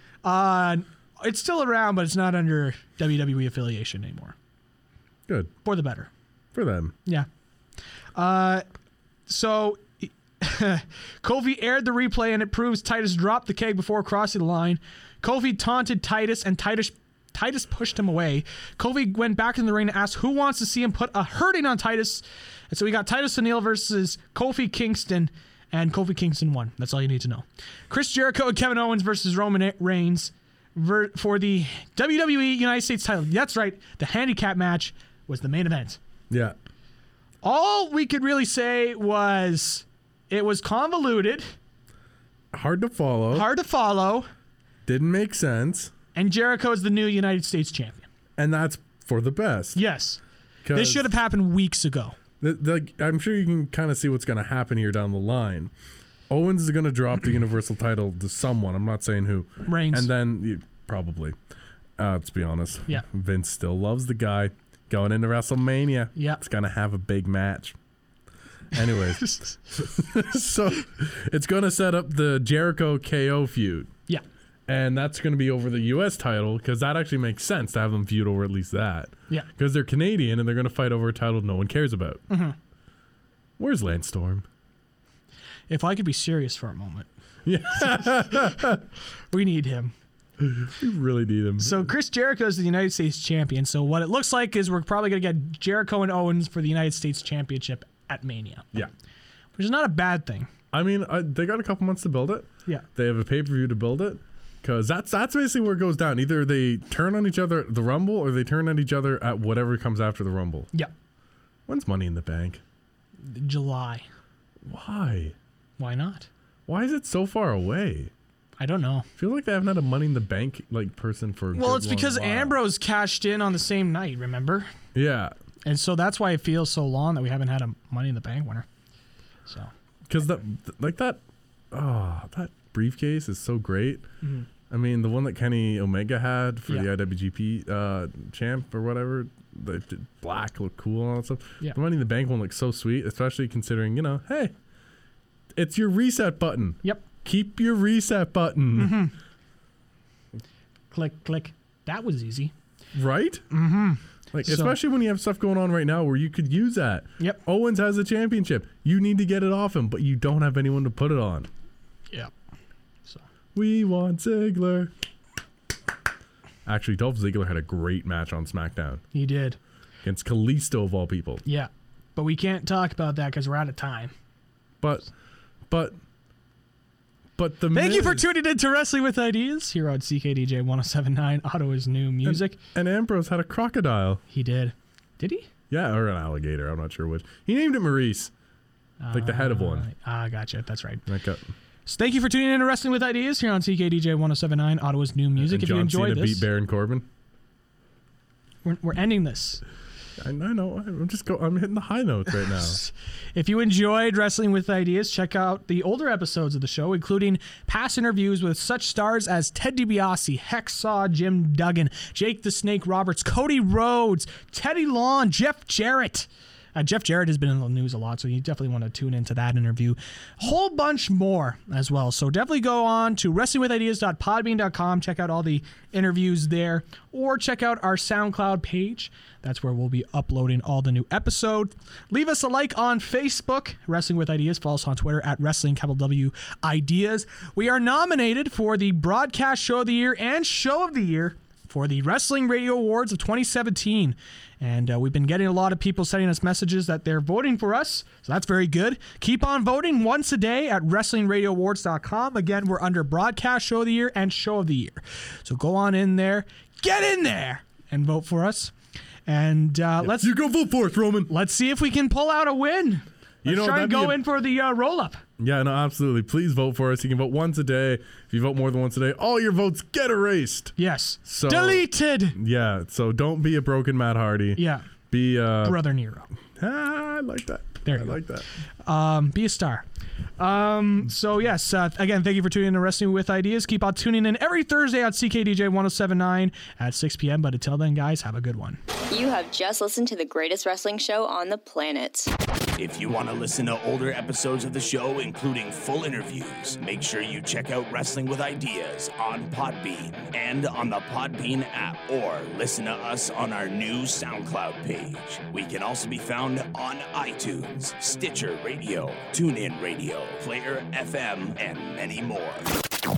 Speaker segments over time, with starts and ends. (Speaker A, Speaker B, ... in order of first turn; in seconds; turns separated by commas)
Speaker A: 0.2-4.3, Speaker A: 5.6-6.1, Speaker B: 6.5-6.9, Speaker A: 8.1-8.6, Speaker A: 9.3-36.0, Speaker B: 36.3-36.6, Speaker A: 37.4-41.5, Speaker B: 42.5-43.5, Speaker A: 43.3-44.3, Speaker B: 44.8-45.9, Speaker A: 46.1-48.0, Speaker B: 48.4-49.8, Speaker A: 49.7-50.2, Speaker B: 50.6-51.0, Speaker A: 50.7-52.1, Speaker B: 52.4-55.7, Speaker B: 56.3-61.4, Speaker A: 59.6-60.1, Speaker B: 62.0-67.8, Speaker B: 68.7-73.9, Speaker A: 69.2-69.5, Speaker B: 74.7-82.2, Speaker A: 82.3-82.5, Speaker B: 83.6-84.5, Speaker A: 85.7-87.1, Speaker B: 87.4-88.8, Speaker A: 87.7-88.6, Speaker A: 89.3-89.9, Speaker B: 90.4-91.9, Speaker A: 91.6-98.7, Speaker A: 99.6-100.5, Speaker B: 100.7-110.7, Speaker B: 111.7-112.6, Speaker A: 113.2-114.0, Speaker B: 114.6-115.3, Speaker A: 115.8-116.3, Speaker B: 116.7-118.1, Speaker A: 118.6-119.1, Speaker B: 119.2-122.6, Speaker A: 121.5-124.7, Speaker B: 124.9-125.3, Speaker A: 125.7-128.7, Speaker B: 130.1-131.2, Speaker B: 131.7-134.1, Speaker B: 134.7-144.5, Speaker B: 145.5-149.0, Speaker A: 148.7-149.1, Speaker A: 150.9-152.5, Speaker B: 152.9-153.4, Speaker A: 153.5-154.8, Speaker B: 154.3-161.5, Speaker B: 163.5-164.9, Speaker B: 166.7-169.0, Speaker A: 169.1-169.6, Speaker B: 170.0-171.4, Speaker A: 171.4-174.1, Speaker B: 174.8-175.1, Speaker B: 175.7-176.0, Speaker B: 177.4-178.3, Speaker A: 177.7-182.6, Speaker B: 182.2-184.2, Speaker A: 184.3-185.5, Speaker B: 185.7-188.3, Speaker A: 189.0-191.0, Speaker B: 189.1-189.9, Speaker B: 191.1-191.4, Speaker A: 191.8-196.4, Speaker B: 195.3-197.1, Speaker A: 198.6-199.6, Speaker B: 200.2-202.8, Speaker A: 202.5-258.7, Speaker A: 259.2-260.3, Speaker B: 260.0-261.3, Speaker A: 261.3-265.2, Speaker B: 263.4-264.2, Speaker B: 265.4-270.7, Speaker A: 270.8-272.4, Speaker B: 271.2-275.8, Speaker A: 274.6-274.9, Speaker A: 275.6-276.3, Speaker B: 276.6-278.5, Speaker A: 277.8-278.2, Speaker A: 278.8-279.9, Speaker A: 280.4-288.8, Speaker C: 289.1-292.3, Speaker D: 292.8-312.7